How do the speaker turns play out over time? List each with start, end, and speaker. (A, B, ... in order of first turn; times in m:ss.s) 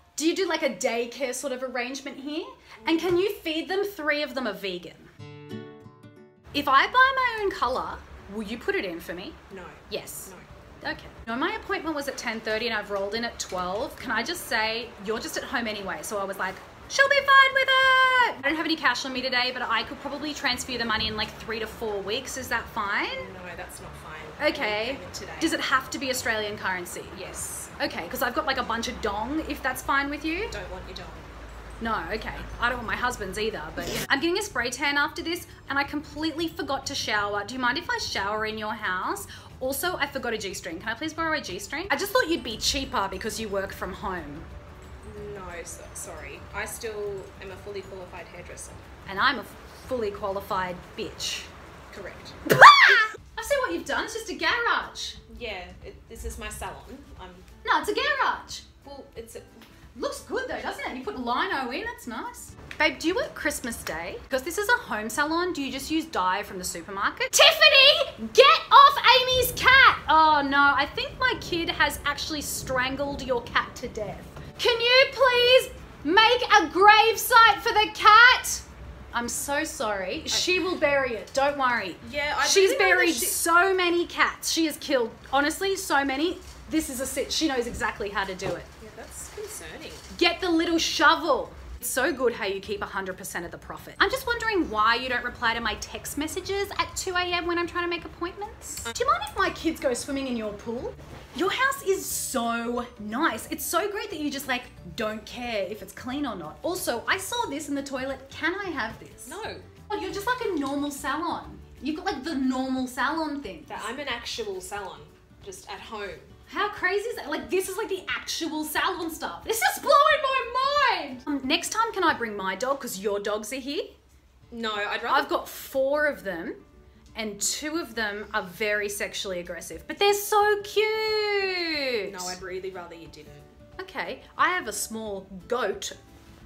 0:00.2-0:05.1 A
0:06.5-0:09.4 A
0:09.5-0:10.5 B
0:09.9-0:23.3 A
0:23.1-0:25.6 B
0:24.4-0:27.2 A
0:27.1-0:27.7 B
0:27.8-0:30.6 A
0:30.5-0:31.3 B
0:31.8-0:44.5 A
0:45.0-0:48.8 B
0:49.1-0:51.5 A
0:51.9-0:52.4 B
0:52.5-0:55.2 A
0:55.3-0:57.5 B
0:57.6-0:58.7 A
0:58.8-0:59.6 B
1:00.0-1:28.7 A
1:22.0-1:23.4 B
1:28.8-1:30.1 B
1:30.1-1:53.9 A
1:49.2-1:49.7 B
1:53.7-1:56.3 B
1:56.5-2:04.0 A
2:04.5-2:05.3 B
2:05.1-2:06.6 A
2:07.2-2:12.4 A
2:12.0-2:13.5 B
2:13.8-2:16.0 A